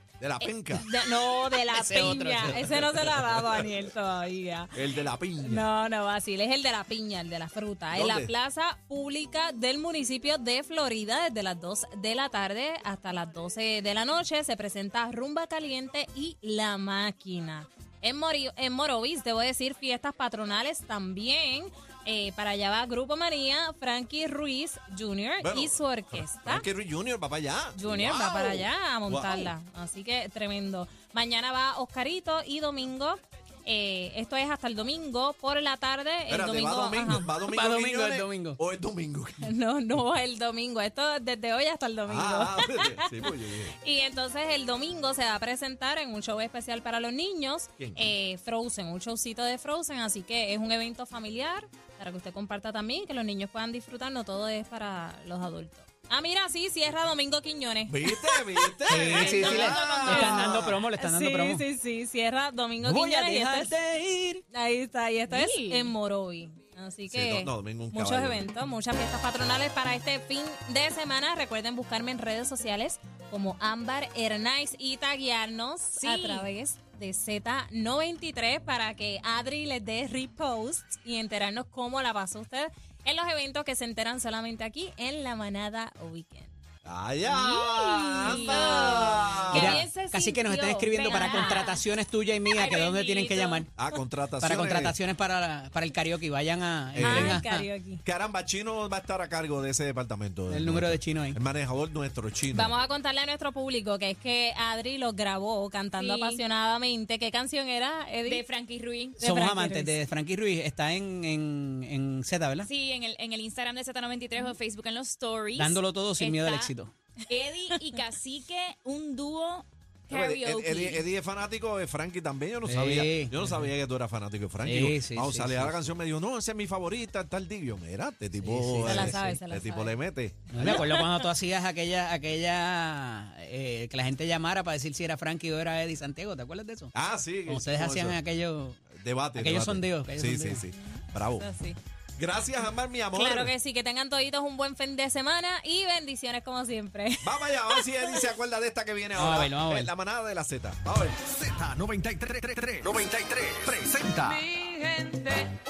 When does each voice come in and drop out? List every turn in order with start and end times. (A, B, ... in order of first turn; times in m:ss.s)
0:00.2-0:00.8 A
0:00.4-0:26.7 B
0:01.6-0:03.4 C
0:04.7-0:05.7 A
0:07.9-0:08.3 A
0:25.4-0:29.5 A
0:27.8-0:37.3 B
0:36.3-0:39.5 A
0:37.4-0:38.6 C
0:39.4-1:03.8 B
0:42.1-0:43.8 A
0:47.8-0:48.1 A
0:57.9-1:00.8 A
0:58.9-1:01.6 C
0:59.1-1:00.6 D
1:02.8-1:04.4 C
1:04.5-1:26.5 B
1:05.3-1:05.9 D
1:07.1-1:08.4 A
1:16.0-1:16.5 D
1:26.8-1:29.8 A
1:27.2-1:31.9 D
1:28.2-1:30.0 B
1:29.5-1:33.7 C
1:31.0-1:31.7 B
1:32.5-1:33.7 D
1:33.8-1:35.0 A
1:34.4-1:37.7 C
1:36.9-1:37.4 A
1:37.0-1:38.0 B
1:38.0-1:42.8 A
1:40.5-1:41.4 C
1:42.5-1:48.4 B
1:46.0-1:46.4 D
1:48.2-1:49.2 D
1:49.2-1:52.7 C
1:49.2-1:50.0 B
1:52.6-1:56.7 D
1:55.6-1:56.9 C
1:57.3-2:01.0 D
2:00.1-2:10.8 A
2:02.6-2:03.7 C
2:04.6-2:06.0 C
2:08.4-2:09.4 C
2:08.8-2:10.0 B
2:10.5-2:16.9 C
2:10.6-2:11.2 B
2:16.9-2:18.2 A
2:17.5-2:20.7 C
2:18.9-2:21.5 A
2:21.4-2:21.8 B
2:22.2-2:23.5 A
2:23.1-2:28.3 B
2:27.2-2:31.2 A
2:29.1-2:29.9 C
2:31.1-2:34.4 E